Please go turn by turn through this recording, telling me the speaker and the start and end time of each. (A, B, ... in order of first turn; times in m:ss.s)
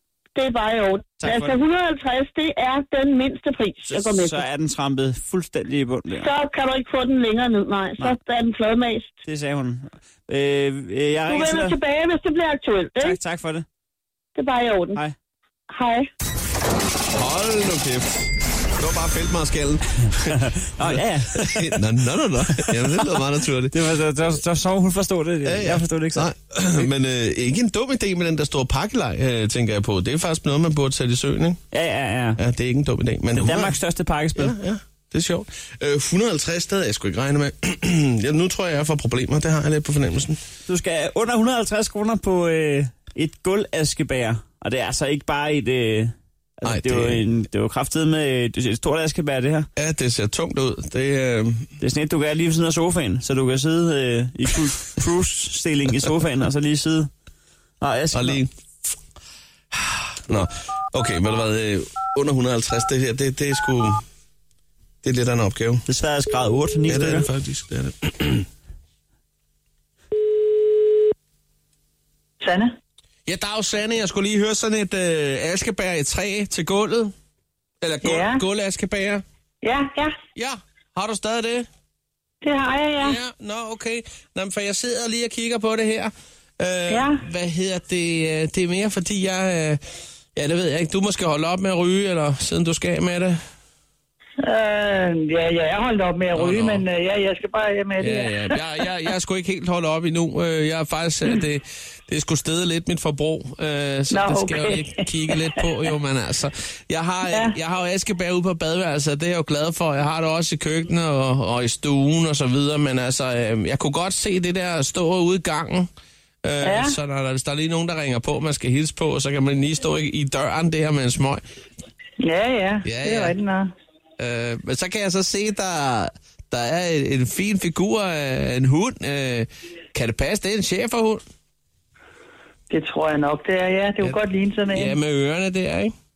0:00.4-0:04.4 A
0:01.2-0:01.6 B
0:03.9-0:06.3 B
0:06.2-0:09.1 A
0:09.2-0:11.8 B
0:11.3-0:13.2 A
0:13.0-0:13.7 B
0:14.4-0:15.0 A
0:15.7-0:16.1 A
0:17.1-0:24.0 C
0:20.3-0:21.8 B
0:22.5-0:23.0 B
0:23.7-0:26.3 B
0:25.4-0:31.6 C
0:31.7-0:32.4 B
0:32.4-0:33.8 C
0:33.4-0:34.6 B
0:34.4-0:40.4 C
0:40.7-0:49.7 B
0:46.6-0:47.2 C
0:49.8-0:51.7 C
0:51.8-0:57.1 B
0:57.8-0:58.4 B
0:58.1-0:58.9 C
0:59.7-1:04.0 C
1:05.0-1:05.8 C
1:05.9-1:07.3 B
1:06.9-1:08.5 C
1:12.4-1:12.7 D
1:13.3-1:17.1 C
1:17.8-1:19.2 C
1:18.0-1:18.4 D
1:19.6-1:20.2 D
1:20.4-1:21.7 C
1:22.4-1:23.2 D
1:23.0-1:29.8 C
1:26.9-1:27.2 D
1:30.4-1:33.4 C
1:34.4-1:38.6 D
1:36.3-1:36.9 C
1:38.0-1:55.9 C
1:44.1-1:45.7 D
1:47.3-1:47.6 D
1:56.4-2:01.4 C
1:56.6-1:57.0 D
2:02.2-2:03.7 D
2:02.8-2:03.4 C
2:04.2-2:11.2 C
2:12.7-2:15.0 D
2:14.7-2:15.9 C